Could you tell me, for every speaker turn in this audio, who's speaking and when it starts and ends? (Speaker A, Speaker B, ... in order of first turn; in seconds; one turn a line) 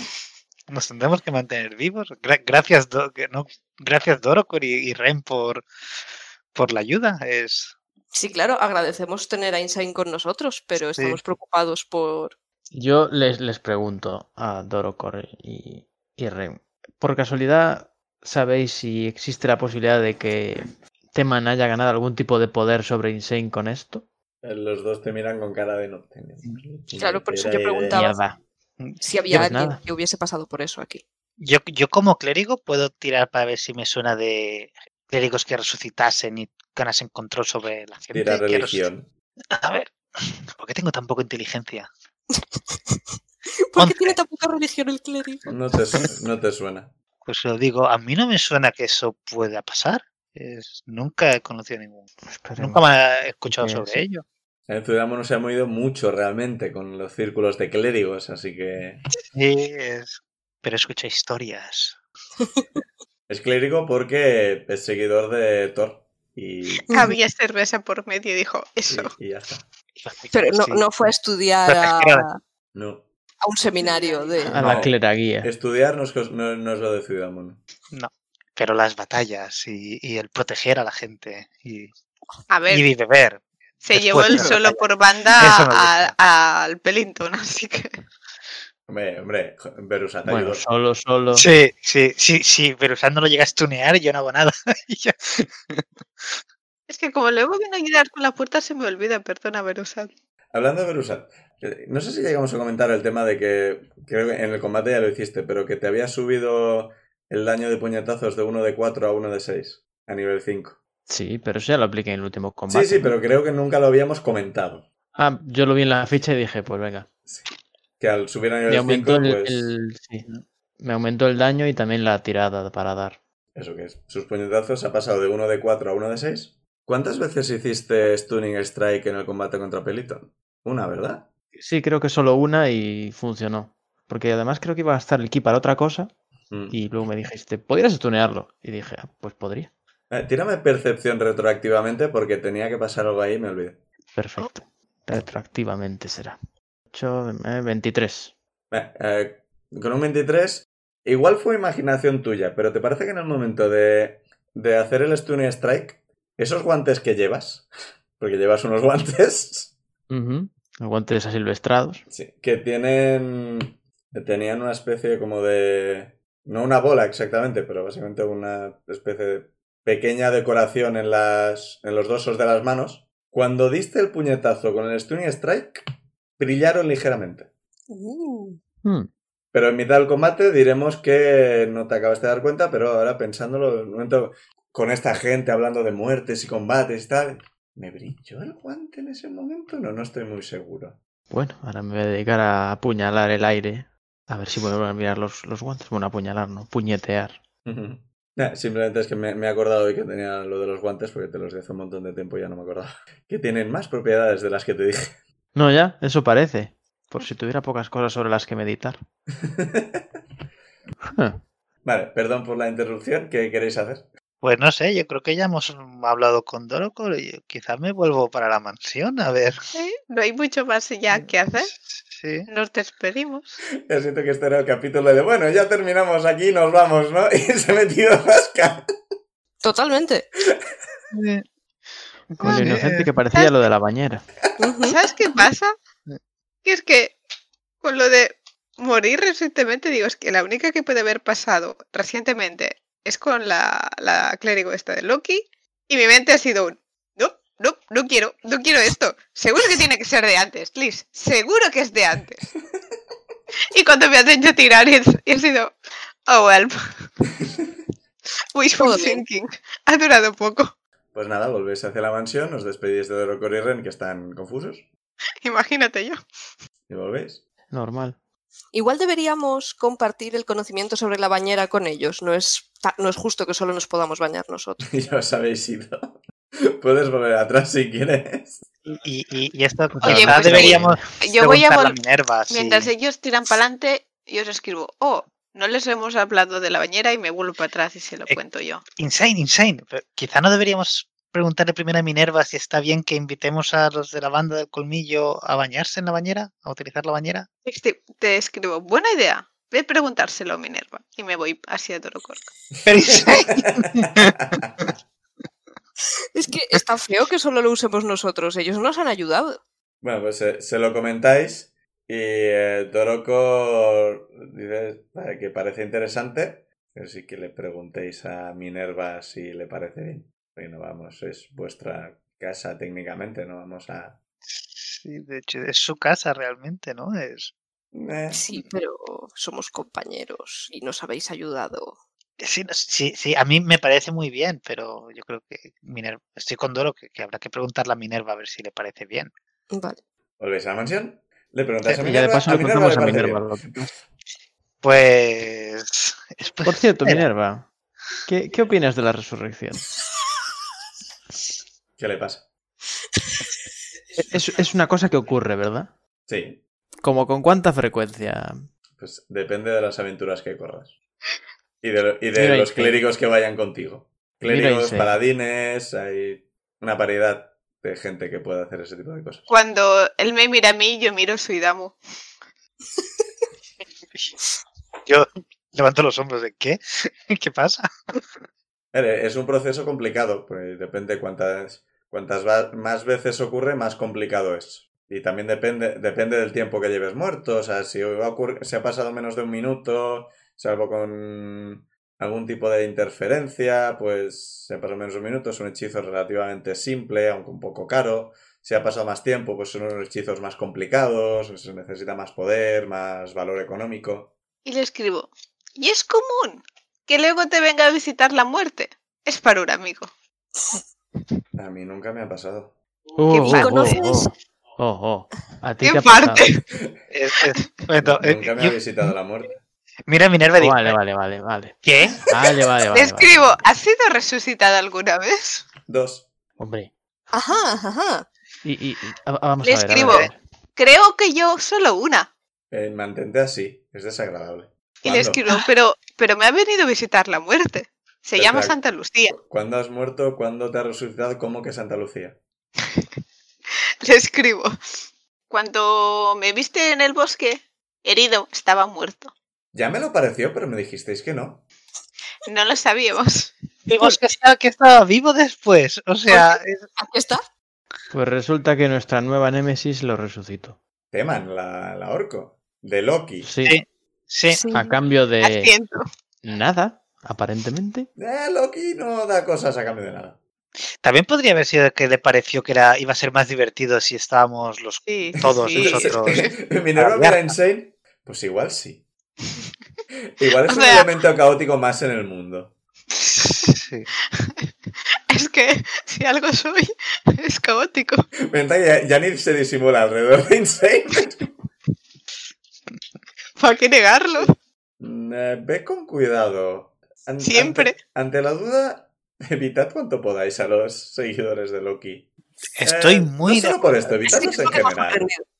Speaker A: 0.7-5.7
Speaker A: 6.5-7.8
Speaker B: 8.1-12.3
Speaker A: 10.9-11.2
Speaker C: 12.7-24.0
Speaker D: 24.4-28.0
Speaker B: 27.0-28.2
Speaker C: 27.9-28.4
Speaker B: 29.0-31.0
Speaker C: 29.3-29.8
Speaker A: 31.4-38.8
Speaker D: 38.1-39.1
Speaker A: 39.5-41.9
Speaker B: 42.4-43.0
Speaker B: 43.6-45.5
Speaker A: 43.8-44.1
Speaker D: 45.5-46.9
Speaker A: 47.2-54.2
Speaker C: 52.3-52.8
Speaker C: 53.5-54.0
Speaker D: 54.7-59.0
Speaker A: 59.3-62.0
Speaker D: 63.3-66.9
Speaker E: 66.9-69.1
Speaker B: 66.9-67.2
Speaker D: 68.9-69.7
Speaker A: 70.0-71.1
Speaker B: 70.3-72.4
Speaker A: 71.7-72.3
Speaker D: 72.7-73.0
Speaker B: 73.4-74.8
Speaker C: 74.5-75.5
Speaker D: 74.5-77.6
Speaker A: 77.9-81.9
Speaker E: 82.5-82.8
Speaker A: 82.7-86.2
Speaker E: 83.8-88.0
Speaker D: 88.9-90.6
Speaker C: 90.2-91.5
Speaker A: 91.3-96.4
Speaker E: 96.9-100.1
Speaker D: 100.5-110.8
Speaker C: 111.1-113.1
Speaker D: 112.7-114.8
Speaker C: 115.2-117.1
Speaker D: 118.0-119.7
Speaker C: 118.7-120.3
Speaker C: 120.8-123.2
Speaker D: 123.5-131.3
Speaker C: 131.5-136.1
Speaker D: 136.5-136.8
Speaker C: 136.7-139.7
Speaker D: 140.1-143.8
Speaker C: 144.1-146.4
Speaker C: 146.9-148.3
Speaker D: 148.7-157.7
Speaker D: 158.2-159.7
Speaker C: 160.1-162.1
Speaker D: 162.1-175.8
Speaker D: 176.4-177.5
Speaker B: 177.9-178.6
Speaker C: 178.8-179.1
Speaker D: 179.5-191.0
Speaker C: 191.3-197.4
Speaker D: 197.7-205.2
Speaker C: 205.5-209.0
Speaker D: 209.4-210.0
Speaker C: 211.1-211.4
Speaker D: 211.8-214.1
Speaker A: 214.4-219.6
Speaker E: 219.7-221.7
Speaker A: 221.2-222.5
Speaker E: 222.5-223.6
Speaker D: 223.8-228.9
Speaker B: 229.6-230.3
Speaker A: 231.1-231.4
Speaker A: 232.3-233.1
Speaker C: 232.4-234.2
Speaker B: 234.6-234.9
Speaker E: 234.8-235.7
Speaker E: 236.6-237.2
Speaker E: 237.8-252.5
Speaker E: 253.7-255.7
Speaker E: 256.3-257.1
Speaker E: 258.5-260.7
Speaker B: 258.8-259.2
Speaker D: 261.1-264.9
Speaker E: 265.4-266.2
Speaker D: 266.9-267.4
Speaker C: 267.7-268.2
Speaker B: 268.7-274.9
Speaker D: 274.8-278.6
Speaker A: 278.9-282.9
Speaker C: 280.0-281.0
Speaker E: 280.0-281.9
Speaker E: 282.5-288.8
Speaker A: 289.0-297.5
Speaker E: 297.6-302.5
Speaker D: 302.8-304.9
Speaker A: 302.9-304.9
Speaker B: 306.3-309.6
Speaker D: 310.0-324.2
Speaker A: 324.5-327.5
Speaker D: 327.9-328.4
Speaker B: 328.3-331.9
Speaker A: 332.4-339.3
Speaker B: 339.7-340.0
Speaker D: 340.4-343.4
Speaker C: 342.0-343.9
Speaker A: 344.8-347.2
Speaker C: 346.6-347.7
Speaker C: 348.2-349.8
Speaker D: 352.0-352.4
Speaker C: 354.2-355.9
Speaker D: 356.3-356.6
Speaker C: 357.0-358.6
Speaker D: 359.0-360.9
Speaker D: 361.8-369.5
Speaker C: 362.3-363.0
Speaker C: 364.4-365.1
Speaker E: 369.5-372.0
Speaker A: 375.1-378.2
Speaker D: 378.9-404.3
Speaker E: 404.6-410.1
Speaker D: 411.6-412.7
Speaker C: 413.2-416.5
Speaker E: 413.3-413.7
Speaker B: 413.4-414.3
Speaker E: 415.8-416.6
Speaker A: 417.1-418.8
Speaker D: 418.0-419.6
Speaker A: 420.1-421.0
Speaker C: 420.6-423.6
Speaker A: 421.8-422.3
Speaker E: 422.9-425.6
Speaker D: 425.9-426.2
Speaker C: 426.6-426.9
Speaker B: 427.3-428.2
Speaker C: 428.6-430.4
Speaker E: 429.6-432.3
Speaker A: 430.0-430.3
Speaker D: 432.7-435.4
Speaker E: 435.0-439.4
Speaker D: 438.4-438.8
Speaker D: 439.3-442.4
Speaker E: 444.0-444.8
Speaker E: 445.5-449.3
Speaker D: 449.7-451.6
Speaker E: 452.4-453.5
Speaker A: 453.9-456.9
Speaker B: 457.0-457.4
Speaker C: 458.1-460.8
Speaker D: 461.1-463.5
Speaker C: 463.4-463.8
Speaker A: 463.6-464.6
Speaker B: 464.5-465.0
Speaker C: 464.7-465.7
Speaker E: 465.4-466.0
Speaker C: 466.4-468.1
Speaker D: 468.2-470.4
Speaker A: 471.0-477.5
Speaker E: 475.1-476.5
Speaker D: 475.8-479.0
Speaker D: 480.4-482.7
Speaker E: 480.7-481.1
Speaker A: 483.6-484.1
Speaker E: 485.3-488.2
Speaker D: 488.5-491.5
Speaker E: 493.6-494.5
Speaker D: 495.0-502.3
Speaker E: 497.4-498.0
Speaker A: 502.7-504.6
Speaker D: 502.8-505.3
Speaker B: 504.2-505.4